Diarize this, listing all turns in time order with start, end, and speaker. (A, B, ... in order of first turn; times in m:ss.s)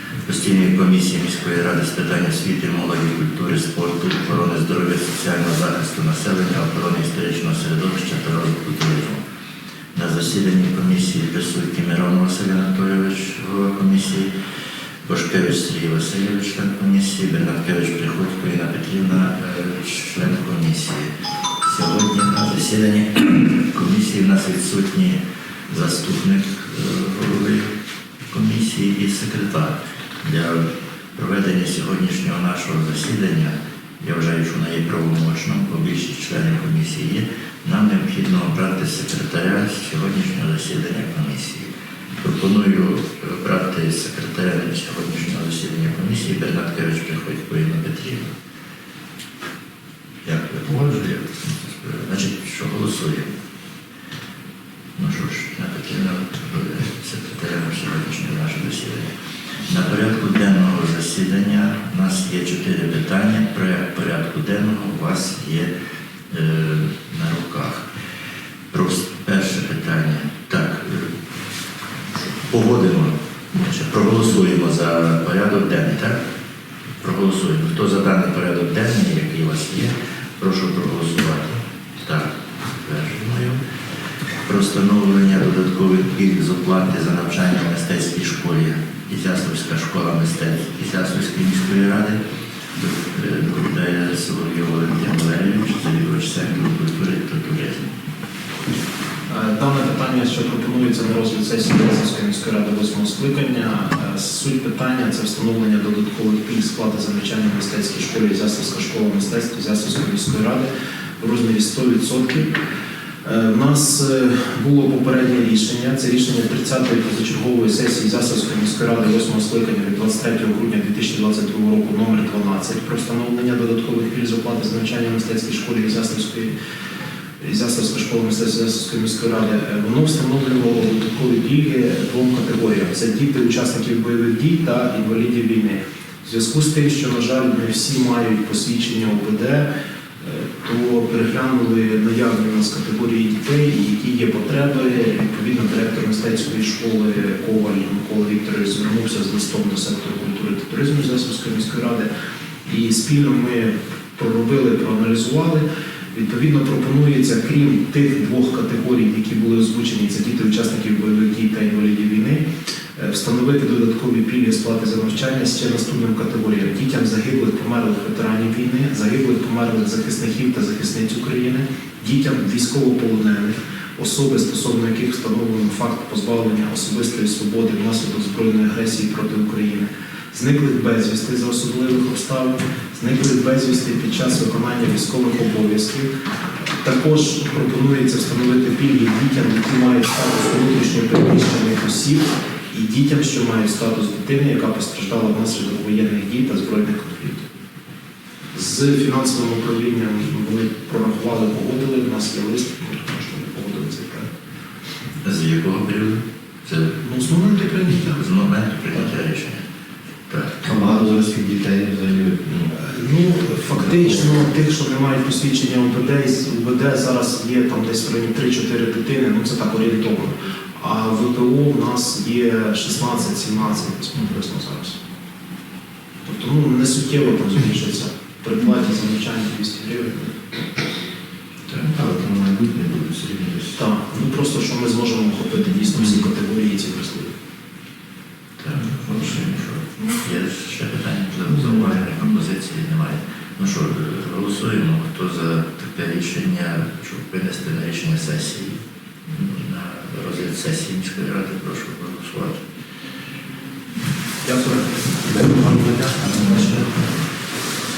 0:00.2-0:09.2 A
0:09.9-0:14.3 A
0:15.0-0:21.1 A
0:21.6-0:25.2 A
0:25.7-0:27.7 A
0:28.3-0:30.6 A
0:31.2-0:48.3 A
0:50.2-0:53.3 A
0:55.0-0:59.1 A
0:59.6-1:05.7 A
1:06.3-1:07.8 A
1:08.7-1:11.1 A
1:12.3-1:16.2 A
1:17.0-1:23.6 A
1:24.4-1:32.2 A
1:32.8-1:37.9 A
1:39.3-1:50.7 B
1:51.2-1:52.5 B
1:53.2-2:06.5 B
2:07.4-2:19.7 B
2:20.2-2:32.1 B
2:32.6-2:42.4 B
2:43.0-3:06.1 B
3:06.8-3:17.4 B
3:18.5-3:24.3 B
3:25.2-3:27.0 A
3:27.0-3:28.2 B
3:27.9-3:29.6 A
3:30.3-3:30.8 A
3:30.6-3:32.7 C
3:32.7-3:45.0 B
3:33.9-3:34.2 C
3:46.2-3:50.6 B
3:51.7-3:53.8 C
3:53.8-3:57.3 B
3:58.6-4:08.8 A
4:09.3-4:12.6 A
4:14.5-4:16.5 B